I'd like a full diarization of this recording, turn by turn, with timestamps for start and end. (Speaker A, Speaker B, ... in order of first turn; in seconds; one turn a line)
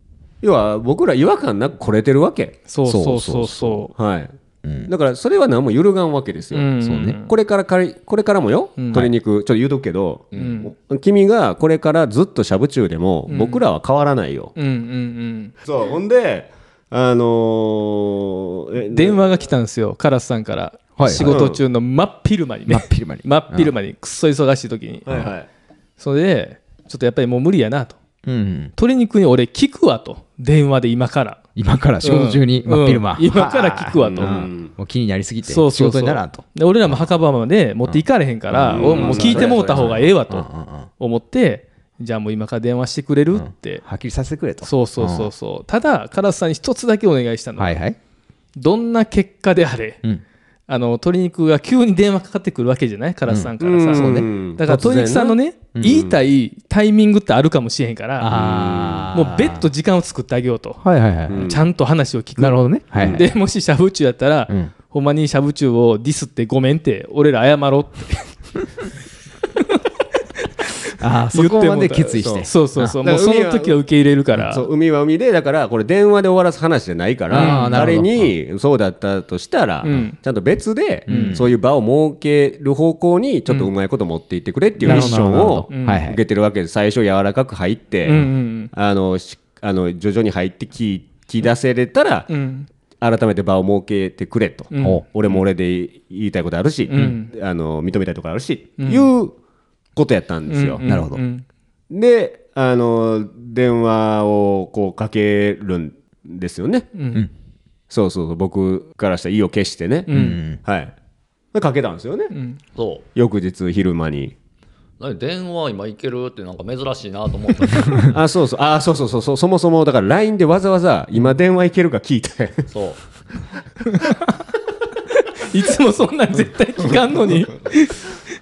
Speaker A: 0.4-2.6
Speaker B: 2.7-3.9
Speaker C: 2.8-3.9
Speaker A: 3.9-4.3
Speaker C: 4.6-4.9
Speaker A: 4.9-14.5
Speaker B: 6.5-7.3
Speaker C: 6.8-7.2
Speaker B: 8.8-9.1
Speaker B: 10.3-10.7
Speaker B: 13.3-13.6
Speaker B: 14.6-15.5
Speaker A: 15.6-19.2
Speaker B: 18.9-25.1
Speaker C: 21.0-21.5
Speaker A: 21.2-21.6
Speaker C: 22.7-23.7
Speaker A: 25.1-25.5
Speaker B: 26.0-28.0
Speaker C: 28.2-28.7
Speaker B: 28.8-31.4
Speaker C: 31.6-37.1
Speaker B: 32.0-34.4
Speaker A: 34.0-34.7
Speaker B: 35.4-43.8
Speaker C: 37.9-40.9
Speaker A: 38.5-40.1
Speaker D: 38.8-39.3
Speaker C: 43.3-45.3
Speaker B: 44.6-47.8
Speaker C: 47.6-48.0
Speaker B: 48.5-50.0
Speaker B: 50.7-58.3
Speaker C: 53.3-54.3
Speaker A: 53.6-56.1
Speaker C: 55.7-56.1
Speaker C: 58.2-59.6
Speaker A: 58.3-59.1
Speaker B: 59.1-68.3
Speaker C: 60.8-61.5
Speaker A: 61.3-61.6
Speaker C: 62.4-63.3
Speaker A: 63.0-63.2
Speaker C: 71.0-73.0
Speaker B: 71.3-74.7
Speaker A: 72.2-73.8
Speaker A: 74.5-92.3
Speaker C: 77.3-78.3
Speaker B: 77.3-77.9
Speaker B: 79.8-80.2
Speaker B: 81.1-81.4
Speaker C: 81.1-81.5
Speaker C: 84.8-86.2
Speaker B: 84.8-86.0
Speaker B: 88.0-88.7
Speaker B: 92.3-92.7
Speaker A: 93.0-99.3
Speaker B: 94.7-95.0
Speaker B: 96.9-97.3
Speaker B: 98.8-99.1
Speaker A: 99.9-100.8
Speaker B: 100.5-101.4
Speaker C: 100.8-101.2
Speaker A: 101.9-106.9
Speaker B: 106.9-107.3
Speaker A: 107.9-110.9
Speaker B: 110.1-110.4
Speaker C: 110.1-110.6
Speaker A: 111.5-112.3
Speaker B: 112.3-112.6
Speaker D: 112.7-113.0
Speaker A: 113.1-114.3
Speaker D: 115.0-118.1
Speaker A: 118.0-122.7
Speaker D: 122.7-123.0
Speaker B: 123.9-124.2
Speaker B: 125.1-128.2